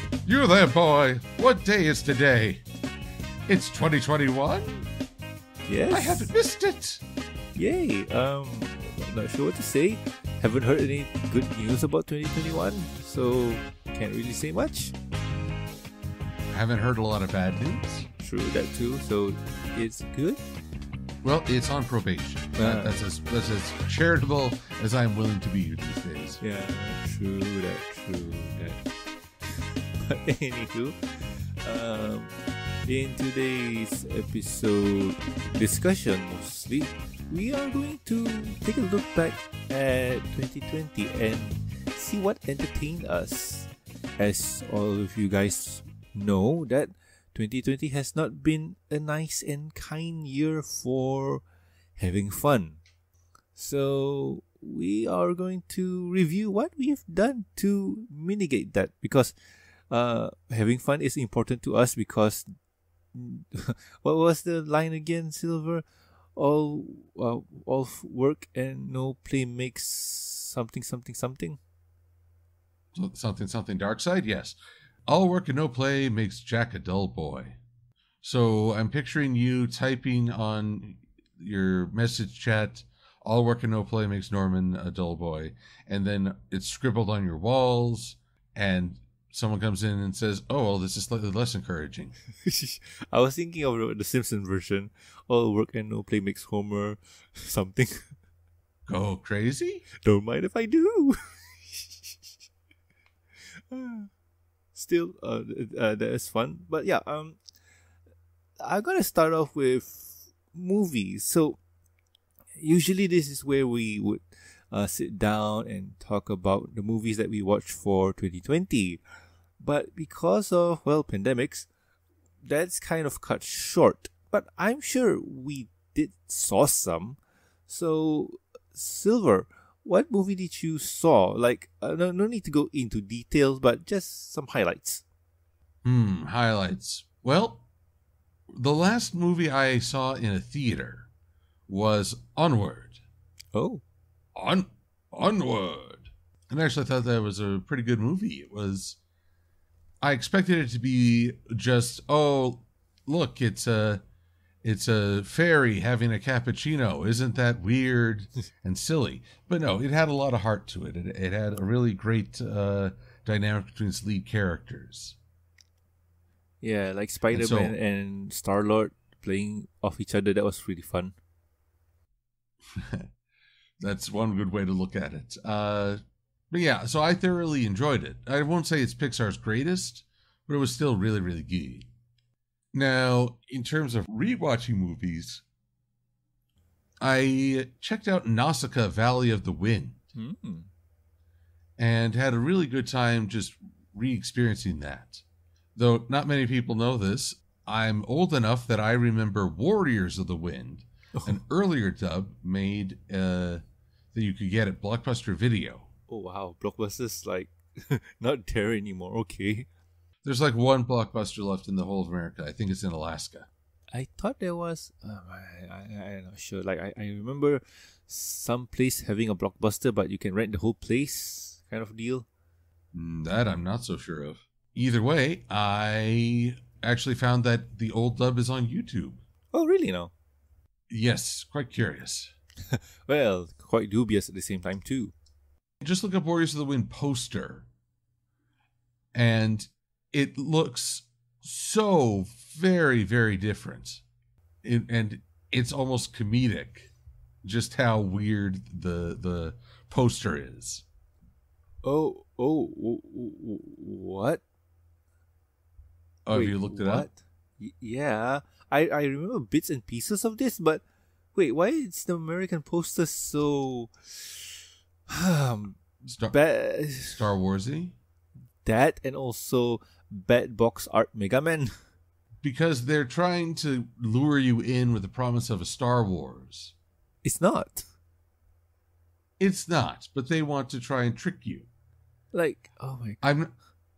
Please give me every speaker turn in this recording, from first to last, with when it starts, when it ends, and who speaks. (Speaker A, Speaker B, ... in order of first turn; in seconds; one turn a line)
Speaker A: 0.2-2.6
Speaker A: 3.5-4.9
Speaker B: 5.7-6.3
Speaker A: 5.9-7.0
Speaker B: 7.5-14.9
Speaker A: 16.5-18.1
Speaker B: 18.2-20.4
Speaker A: 21.2-26.4
Speaker B: 22.6-23.0
Speaker B: 26.4-28.8
Speaker B: 30.0-32.3
Speaker B: 32.9-51.4
Speaker B: 52.0-52.8
Speaker B: 53.6-59.3
Speaker B: 59.9-62.5
Speaker B: 63.1-71.6
Speaker A: 72.9-77.6
Speaker A: 78.2-92.2
Speaker B: 92.4-98.1
Speaker A: 98.9-99.9
Speaker B: 100.0-102.3
Speaker B: 103.7-104.1
Speaker B: 104.8-107.4
Speaker B: 108.6-111.6
Speaker B: 112.6-119.0
Speaker B: 119.6-121.7
Speaker B: 122.4-135.0
Speaker A: 135.8-137.7
Speaker A: 138.5-141.1
Speaker A: 141.7-143.0
Speaker B: 143.5-143.8
Speaker A: 144.3-149.0
Speaker A: 150.0-154.0
Speaker A: 154.6-165.2
Speaker B: 166.6-171.2
Speaker A: 167.3-167.8
Speaker A: 172.7-173.1
Speaker A: 173.8-176.0
Speaker A: 176.5-181.9
Speaker A: 182.7-185.4
Speaker A: 187.0-190.0
Speaker B: 190.2-190.7
Speaker A: 191.8-195.2
Speaker A: 195.8-203.6
Speaker A: 204.1-205.9
Speaker B: 206.1-209.7
Speaker A: 210.2-213.5
Speaker B: 213.9-222.3
Speaker A: 222.9-229.2
Speaker B: 229.5-230.1
Speaker A: 230.9-232.3
Speaker B: 232.7-235.1
Speaker A: 235.8-237.7
Speaker A: 239.1-244.0
Speaker A: 244.6-246.9
Speaker A: 247.4-250.8
Speaker B: 251.8-254.4
Speaker A: 256.2-257.1
Speaker B: 256.3-260.8
Speaker B: 261.3-267.2
Speaker A: 266.0-266.3
Speaker A: 267.0-267.9
Speaker B: 268.6-271.7
Speaker A: 272.4-276.7
Speaker B: 277.2-277.9
Speaker A: 279.4-281.7
Speaker B: 282.3-283.2
Speaker A: 283.2-283.5